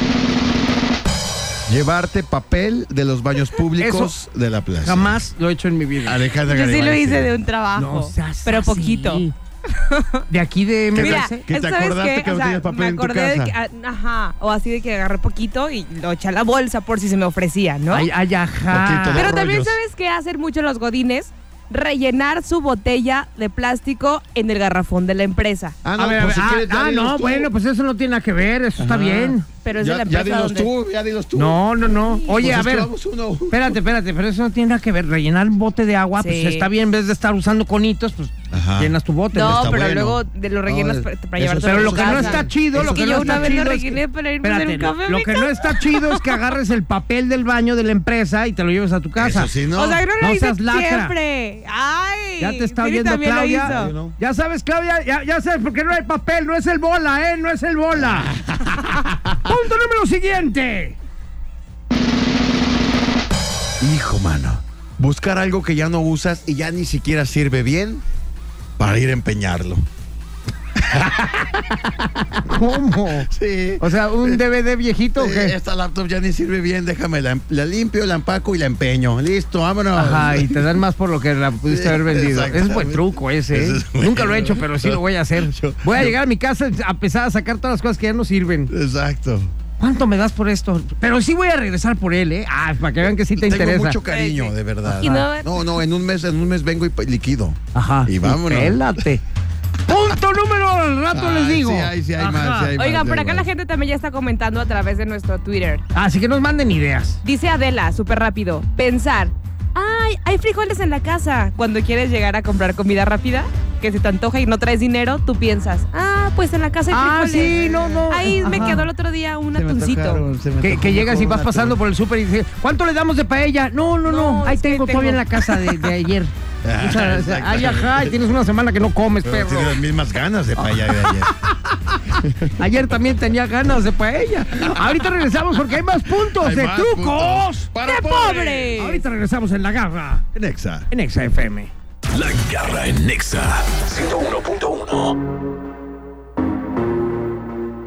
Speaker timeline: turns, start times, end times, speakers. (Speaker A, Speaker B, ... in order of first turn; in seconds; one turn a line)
Speaker A: 1.7-5.2
Speaker B: 3.8-4.1
Speaker B: 4.8-6.2
Speaker A: 6.0-7.4
Speaker C: 6.5-10.2
Speaker B: 7.8-9.3
Speaker B: 10.3-11.4
Speaker A: 10.9-13.5
Speaker C: 11.0-18.1
Speaker B: 17.9-19.3
Speaker A: 18.7-19.8
Speaker C: 19.1-25.8
Speaker A: 25.8-27.5
Speaker B: 26.0-29.5
Speaker A: 28.8-31.6
Speaker C: 29.6-30.7
Speaker B: 31.4-32.9
Speaker A: 32.3-33.8
Speaker B: 33.5-39.7
Speaker C: 36.2-36.7
Speaker A: 38.5-43.7
Speaker C: 39.3-46.4
Speaker B: 41.6-49.5
Speaker A: 49.2-50.0
Speaker C: 49.8-53.9
Speaker B: 50.2-51.1
Speaker B: 52.4-58.3
Speaker A: 53.6-54.2
Speaker A: 58.0-59.5
Speaker B: 59.5-61.0
Speaker A: 63.8-68.0
Speaker A: 68.8-69.9
Speaker A: 70.8-71.8
Speaker B: 72.3-73.3
Speaker A: 73.3-74.4
Speaker B: 73.8-75.5
Speaker A: 75.2-80.8
Speaker B: 80.0-88.7
Speaker A: 81.7-86.2
Speaker A: 88.7-89.5
Speaker B: 89.8-94.0
Speaker A: 93.3-99.0
Speaker C: 94.0-95.6
Speaker B: 94.9-95.3
Speaker B: 97.8-99.2
Speaker B: 99.9-102.7
Speaker A: 101.1-103.5
Speaker C: 102.8-105.8
Speaker B: 105.9-107.2
Speaker C: 107.2-117.6
Speaker B: 116.9-118.9
Speaker A: 117.4-118.1
Speaker C: 118.1-120.2
Speaker A: 119.5-121.8
Speaker B: 120.6-129.8
Speaker C: 124.1-125.6
Speaker A: 126.6-128.2
Speaker A: 129.2-131.3
Speaker B: 130.6-137.7
Speaker A: 132.2-132.5
Speaker A: 136.2-138.8
Speaker C: 137.8-139.0
Speaker B: 138.8-140.2
Speaker A: 140.3-140.9
Speaker B: 140.9-141.7
Speaker D: 142.1-145.2